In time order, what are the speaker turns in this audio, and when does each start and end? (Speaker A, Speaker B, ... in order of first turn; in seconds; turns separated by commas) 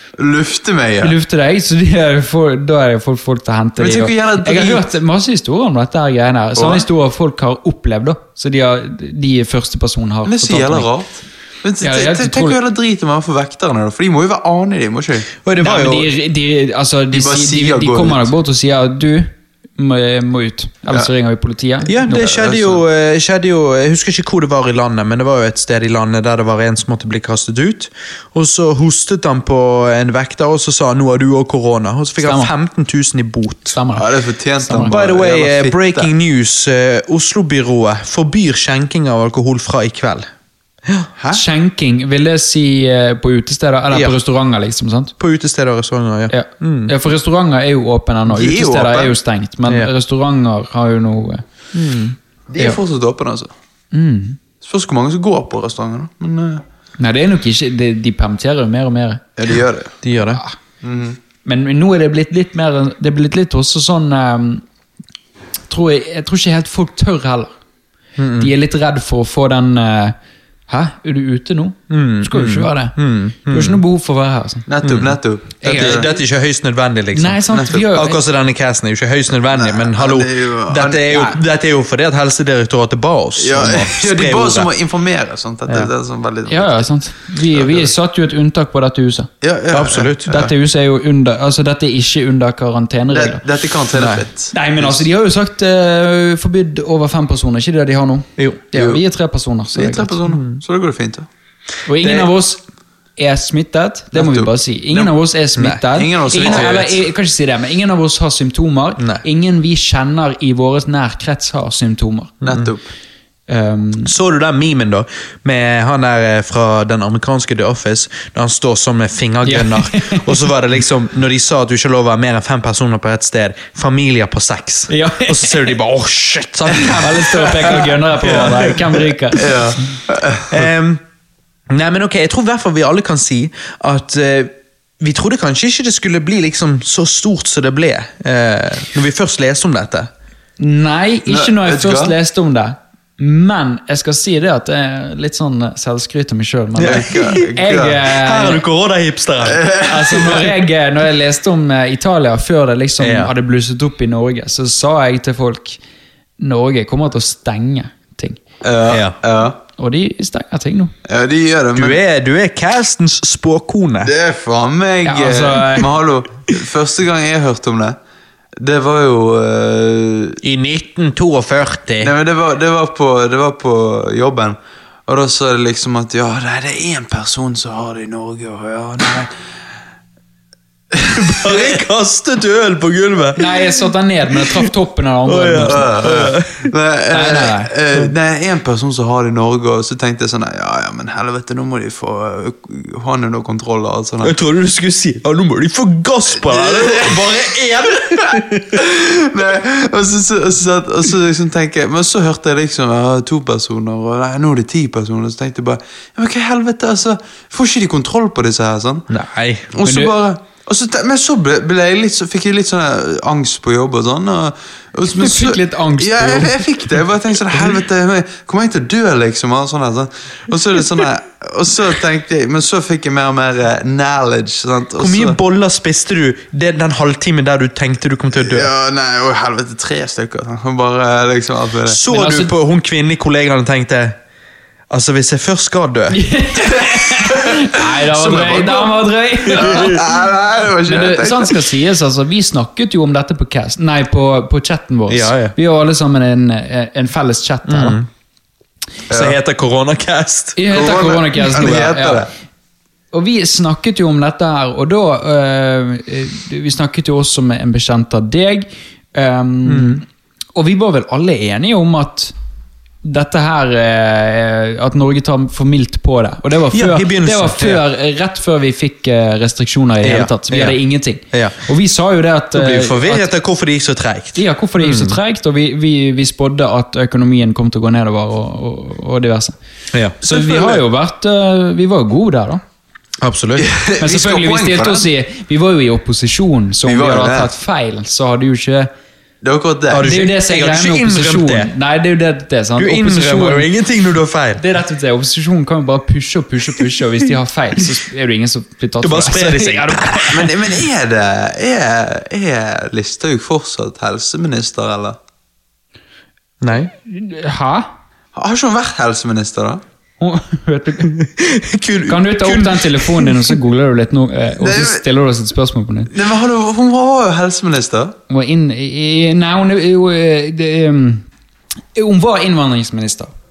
Speaker A: 0.2-1.2, Speaker B: 1.0-10.9, Speaker A: 3.8-4.9, Speaker A: 6.5-6.9, Speaker A: 10.2-15.3, Speaker B: 11.8-12.6, Speaker C: 15.4-16.1, Speaker B: 15.6-22.8, Speaker A: 17.1-18.3, Speaker C: 21.8-33.8, Speaker B: 32.2-32.5, Speaker B: 33.7-34.9, Speaker A: 33.9-36.1, Speaker C: 34.9-40.3, Speaker C: 40.9-41.2, Speaker B: 41.3-45.1, Speaker C: 45.2-46.9, Speaker B: 46.3-51.4, Speaker A: 48.3-49.1, Speaker C: 51.7-52.1, Speaker A: 52.5-53.5, Speaker B: 53.9-54.4, Speaker A: 54.6-56.6, Speaker B: 57.0-59.3, Speaker A: 59.4-59.9, Speaker C: 60.0-60.4, Speaker A: 60.8-61.2, Speaker B: 61.4-64.6, Speaker B: 65.7-67.5, Speaker C: 68.2-68.5, Speaker B: 68.4-70.1, Speaker B: 70.7-74.7, Speaker C: 71.9-73.8, Speaker A: 74.7-76.1, Speaker C: 74.8-84.7, Speaker B: 75.6-76.2, Speaker B: 77.1-78.2, Speaker A: 77.5-77.9, Speaker A: 79.5-81.3, Speaker A: 83.4-86.9, Speaker B: 85.7-89.3, Speaker A: 87.5-87.9, Speaker A: 89.4-90.5, Speaker C: 89.7-90.3, Speaker B: 90.3-93.4, Speaker A: 93.1-95.0, Speaker C: 93.9-94.2, Speaker B: 94.5-100.3, Speaker A: 98.7-99.0, Speaker A: 99.7-101.3, Speaker C: 100.3-100.6, Speaker B: 101.9-102.6, Speaker C: 102.0-102.3, Speaker B: 103.2-112.4, Speaker A: 104.1-105.1, Speaker C: 105.5-105.8, Speaker A: 105.9-107.0, Speaker C: 106.4-106.7, Speaker C: 112.4-112.7, Speaker A: 112.5-112.9, Speaker B: 113.5-114.1, Speaker C: 114.0-128.9, Speaker B: 119.5-120.4, Speaker B: 124.9-125.7, Speaker B: 126.9-129.7, Speaker A: 127.7-128.5, Speaker A: 129.4-130.7, Speaker C: 130.5-131.0, Speaker C: 131.7-140.1, Speaker B: 140.6-148.6, Speaker A: 141.3-142.1, Speaker C: 146.8-147.4, Speaker A: 146.8-148.0, Speaker C: 148.1-149.7, Speaker A: 149.5-150.5, Speaker B: 149.8-155.8, Speaker C: 153.0-153.3, Speaker B: 156.4-158.4, Speaker A: 158.6-159.6, Speaker C: 158.9-159.2, Speaker B: 159.8-160.9, Speaker A: 161.1-162.0, Speaker C: 161.7-164.1, Speaker A: 164.1-168.0, Speaker B: 165.0-165.9, Speaker A: 168.6-170.4, Speaker C: 170.4-172.1, Speaker A: 172.0-179.3, Speaker A: 180.9-181.8, Speaker C: 181.1-183.5, Speaker B: 183.4-185.9, Speaker C: 185.2-186.7, Speaker A: 185.6-194.3, Speaker B: 187.1-187.7, Speaker C: 194.2-198.8, Speaker A: 196.4-209.1, Speaker C: 209.1-209.7, Speaker A: 209.7-225.4, Speaker B: 209.8-210.1, Speaker B: 215.1-216.8, Speaker C: 225.0-228.7, Speaker A: 228.3-232.0, Speaker C: 231.9-234.2, Speaker B: 232.1-232.5, Speaker C: 234.9-236.2, Speaker B: 236.1-240.2, Speaker A: 236.7-239.0, Speaker A: 239.5-241.7, Speaker B: 240.8-248.0, Speaker C: 245.1-245.5, Speaker C: 247.7-248.1, Speaker A: 249.1-249.4, Speaker C: 249.1-250.6, Speaker B: 250.6-252.3, Speaker A: 250.7-252.3, Speaker B: 253.1-260.0, Speaker C: 259.6-260.0, Speaker B: 260.6-262.3, Speaker B: 263.0-273.3, Speaker C: 266.7-267.8, Speaker C: 270.0-270.8, Speaker C: 271.3-271.6, Speaker C: 272.5-275.1, Speaker B: 274.4-279.5, Speaker C: 279.9-280.2, Speaker B: 280.2-282.6, Speaker A: 280.2-280.8, Speaker C: 283.2-283.7, Speaker A: 283.6-285.1, Speaker B: 284.0-288.9, Speaker A: 286.8-287.5, Speaker A: 289.4-290.1, Speaker C: 289.9-291.7, Speaker B: 290.0-293.7, Speaker C: 292.8-294.6, Speaker B: 294.6-300.4, Speaker C: 299.0-300.5, Speaker A: 300.3-305.2, Speaker C: 306.6-306.9, Speaker B: 307.1-307.9, Speaker A: 308.3-309.8, Speaker B: 310.2-311.2, Speaker C: 311.1-313.5, Speaker B: 312.1-316.1, Speaker A: 314.6-315.1, Speaker A: 316.1-318.2, Speaker B: 318.3-321.3, Speaker B: 321.9-323.3